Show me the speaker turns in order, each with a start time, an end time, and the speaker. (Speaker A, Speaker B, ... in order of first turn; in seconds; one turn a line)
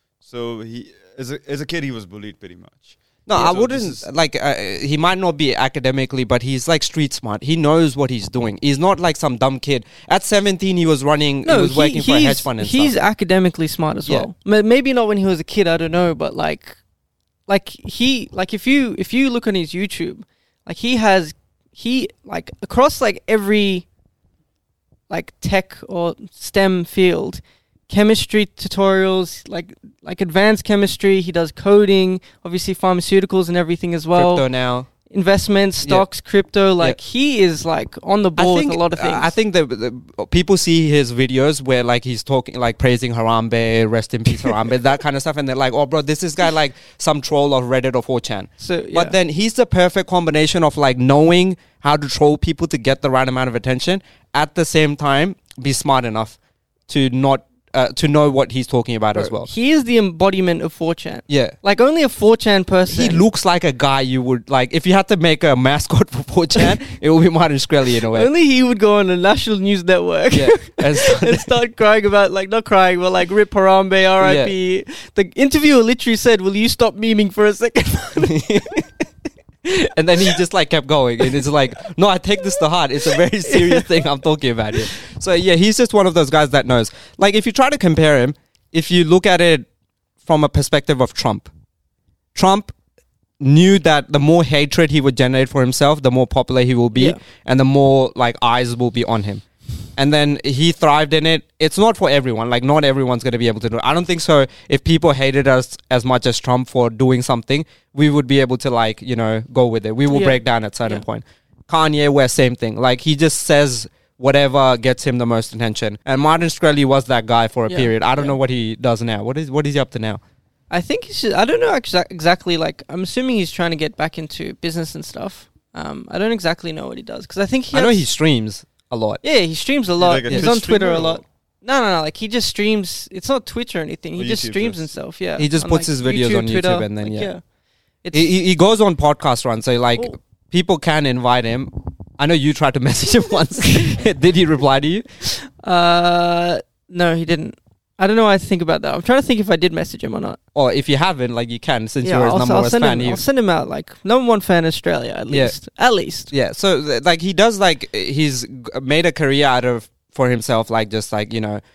Speaker A: 0.2-4.1
Speaker B: 3.3-12.9
Speaker C: 11.4-16.8
Speaker C: 17.5-23.9
Speaker C: 25.1-34.5
Speaker B: 34.1-34.9
Speaker C: 35.1-39.3
Speaker B: 38.4-56.4
Speaker C: 48.6-49.1
Speaker B: 56.9-59.5
Speaker C: 59.1-63.2
Speaker B: 61.3-61.5
Speaker B: 62.9-68.3
Speaker C: 66.5-66.8
Speaker C: 68.1-78.6
Speaker B: 70.3-71.5
Speaker B: 74.2-74.5
Speaker B: 78.2-79.0
Speaker B: 79.6-89.7
Speaker C: 83.1-84.0
Speaker B: 90.2-91.5
Speaker B: 92.3-92.8
Speaker B: 93.4-99.4
Speaker B: 100.0-120.2
Speaker C: 110.1-111.0
Speaker C: 117.7-118.3
Speaker C: 120.7-128.1
Speaker B: 127.7-129.2
Speaker C: 129.2-137.4
Speaker A: 130.0-131.2
Speaker A: 134.2-134.9
Speaker B: 135.4-137.3
Speaker C: 138.0-138.3
Speaker B: 138.1-145.1
Speaker C: 145.3-150.4
Speaker B: 150.5-153.2
Speaker C: 152.0-156.3
Speaker B: 155.3-155.6
Speaker B: 156.3-161.6